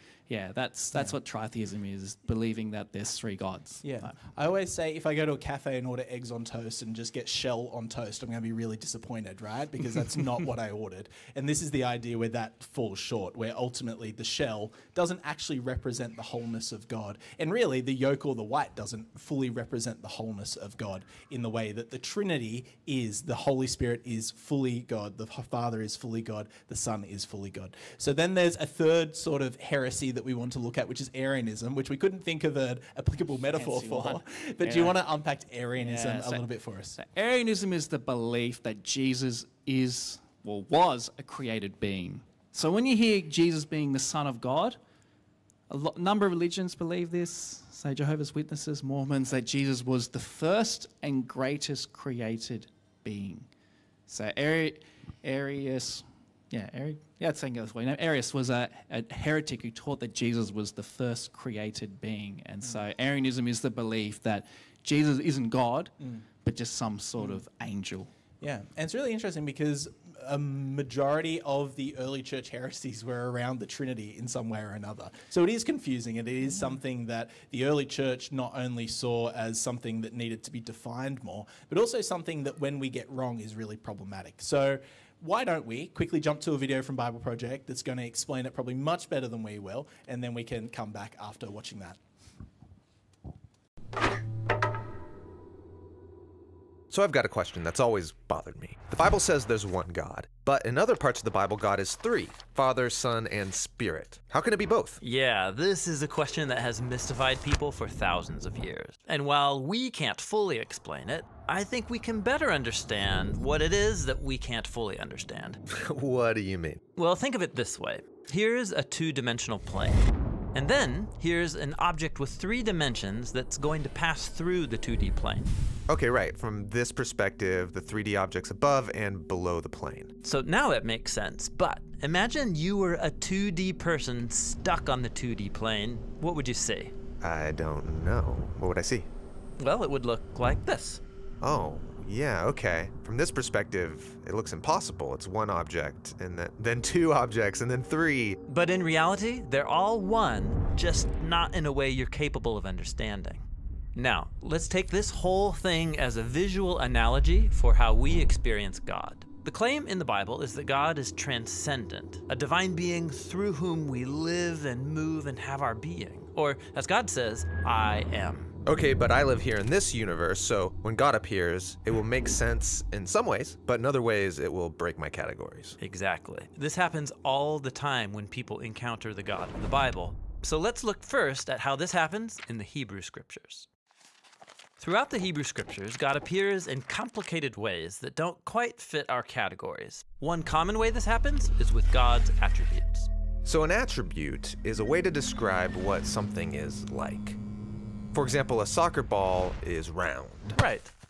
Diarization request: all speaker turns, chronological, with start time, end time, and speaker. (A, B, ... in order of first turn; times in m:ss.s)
0:00.3-0:04.2 A
0:03.8-0:37.0 B
0:33.5-0:35.0 A
0:35.8-0:44.8 A
0:45.7-0:53.5 A
0:54.1-1:08.1 A
1:08.4-1:32.0 B
1:36.9-1:45.0 C
1:45.0-1:55.6 D
1:55.7-1:56.8 C
1:57.0-2:00.0 D
2:00.5-2:05.5 D
2:05.9-2:10.1 C
2:10.2-2:16.9 D
2:17.2-2:19.1 C
2:19.6-2:21.0 D
2:21.4-2:28.4 C
2:28.5-2:48.6 D
2:48.6-2:55.8 C
2:55.8-3:03.7 D
3:04.8-3:13.1 D
3:13.4-3:17.4 C
3:18.1-3:20.6 C
3:20.6-3:20.9 D